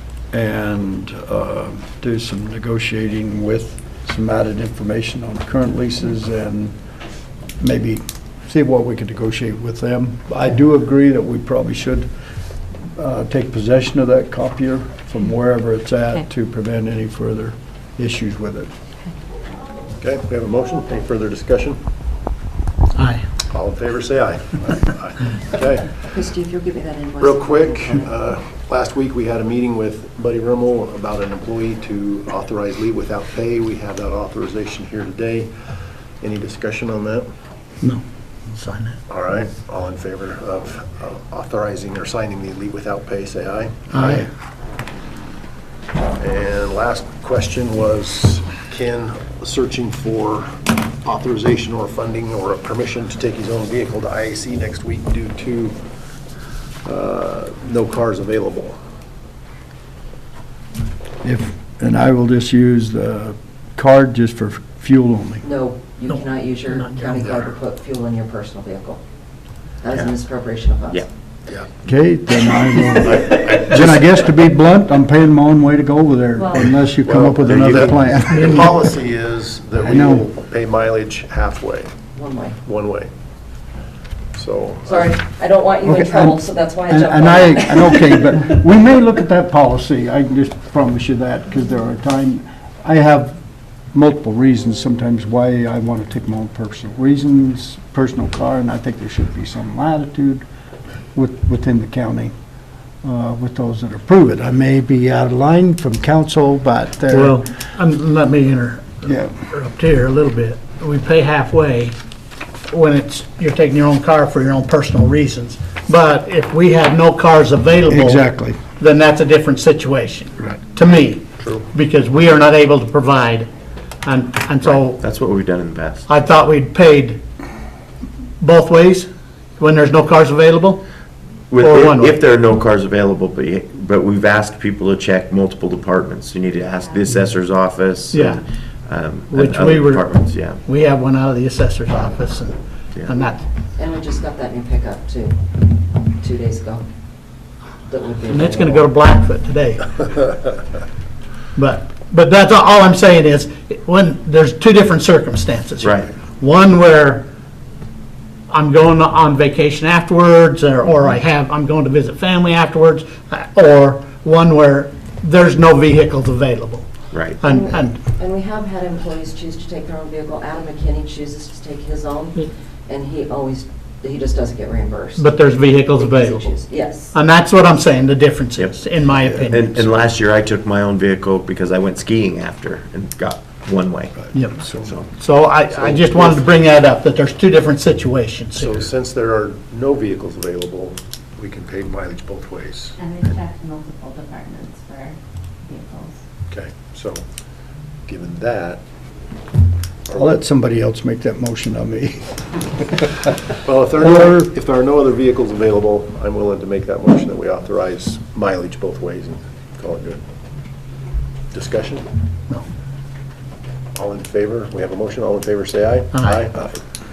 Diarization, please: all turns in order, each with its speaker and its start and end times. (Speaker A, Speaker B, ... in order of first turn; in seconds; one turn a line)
Speaker A: 0.3-6.8
Speaker A: 7.6-12.1
Speaker A: 12.9-18.7
Speaker B: 20.0-21.8
Speaker C: 22.9-23.2
Speaker B: 23.5-26.1
Speaker D: 26.1-28.1
Speaker B: 27.2-37.3
Speaker C: 37.8-39.0
Speaker B: 39.1-44.3
Speaker C: 43.9-44.2
Speaker B: 46.2-55.8
Speaker B: 56.8-58.8
Speaker A: 61.2-65.4
Speaker D: 65.4-69.0
Speaker C: 66.1-67.5
Speaker D: 69.8-71.0
Speaker A: 71.8-78.7
Speaker E: 73.1-73.8
Speaker B: 76.9-81.9
Speaker E: 77.5-77.8
Speaker A: 79.8-80.3
Speaker D: 82.1-82.6
Speaker B: 82.6-83.1
Speaker B: 84.3-85.2
Speaker D: 84.9-88.4
Speaker A: 85.8-93.4
Speaker A: 93.9-100.4
Speaker A: 101.1-102.3
Speaker A: 103.0-107.4
Speaker C: 107.1-111.9
Speaker A: 109.0-109.3
Speaker C: 112.7-123.5
Speaker A: 117.9-118.6
Speaker B: 121.4-121.7
Speaker C: 124.0-125.0
Speaker E: 124.6-126.1
Speaker C: 126.1-127.2
Speaker C: 128.4-129.1
Speaker C: 129.6-130.8
Speaker E: 131.5-140.6
Speaker C: 131.6-132.2
Speaker C: 138.1-138.4
Speaker C: 139.3-140.1
Speaker C: 140.6-143.4
Speaker D: 143.8-145.4
Speaker D: 146.2-146.8
Speaker D: 147.9-148.9
Speaker C: 148.3-150.0
Speaker C: 151.6-157.3
Speaker E: 155.8-156.1
Speaker C: 158.5-166.9
Speaker E: 167.1-167.4
Speaker C: 167.4-168.0
Speaker D: 167.4-175.3
Speaker C: 175.2-176.6
Speaker D: 175.9-177.1
Speaker C: 177.1-179.8
Speaker E: 178.6-185.1
Speaker C: 184.3-188.9
Speaker B: 185.9-186.5
Speaker B: 188.5-192.9
Speaker F: 193.0-196.2
Speaker B: 196.5-197.2
Speaker B: 198.1-198.8
Speaker A: 200.1-203.1
Speaker B: 203.6-210.2
Speaker A: 204.0-204.4
Speaker B: 211.5-212.1
Speaker B: 213.9-216.8
Speaker C: 216.1-216.4